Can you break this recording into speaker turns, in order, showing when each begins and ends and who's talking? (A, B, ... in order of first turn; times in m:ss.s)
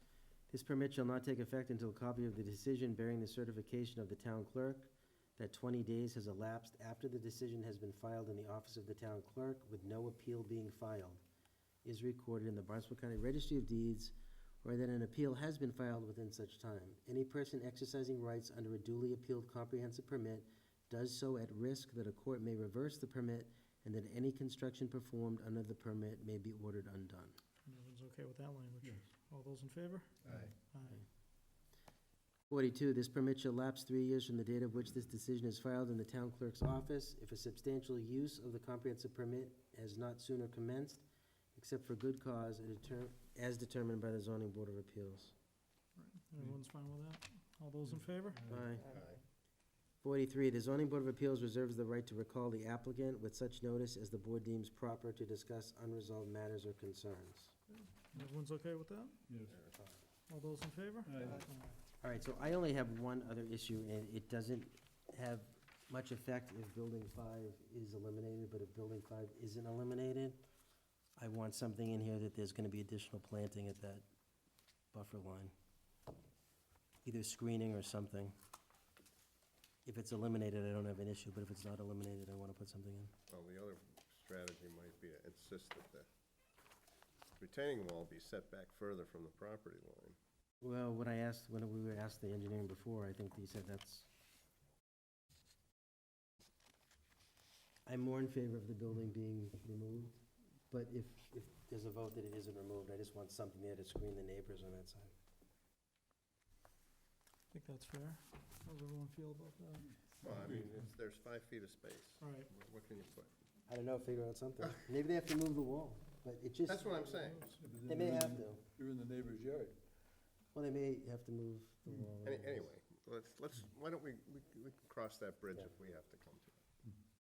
0:00.5-0:11.2 A
0:11.8-0:27.4 A
0:27.6-0:31.0 B
0:30.2-0:30.5 C
0:32.5-0:41.0 A
0:41.5-0:45.3 A
0:46.0-0:48.4 B
0:47.9-0:48.7 C
0:48.5-0:48.9 A
0:48.8-0:49.2 D
0:50.0-0:57.5 A
0:58.1-0:59.2 B
0:59.3-0:59.5 C
0:59.5-0:59.8 D
1:00.3-1:01.8 B
1:01.0-1:01.4 C
1:02.0-1:10.4 A
1:11.2-1:14.0 A
1:14.9-1:15.5 A
1:17.0-1:18.4 A
1:19.8-1:23.1 A
1:23.3-1:26.1 D
1:27.4-1:30.2 D
1:30.6-1:34.1 A
1:37.8-1:45.1 A
1:47.5-1:49.9 B
1:50.2-1:53.3 D
1:52.2-1:52.5 B
1:53.7-1:57.1 A
1:56.6-1:57.6 D
1:57.6-1:59.8 C
1:57.8-1:58.6 A
2:00.5-2:02.7 A
2:02.2-2:06.6 D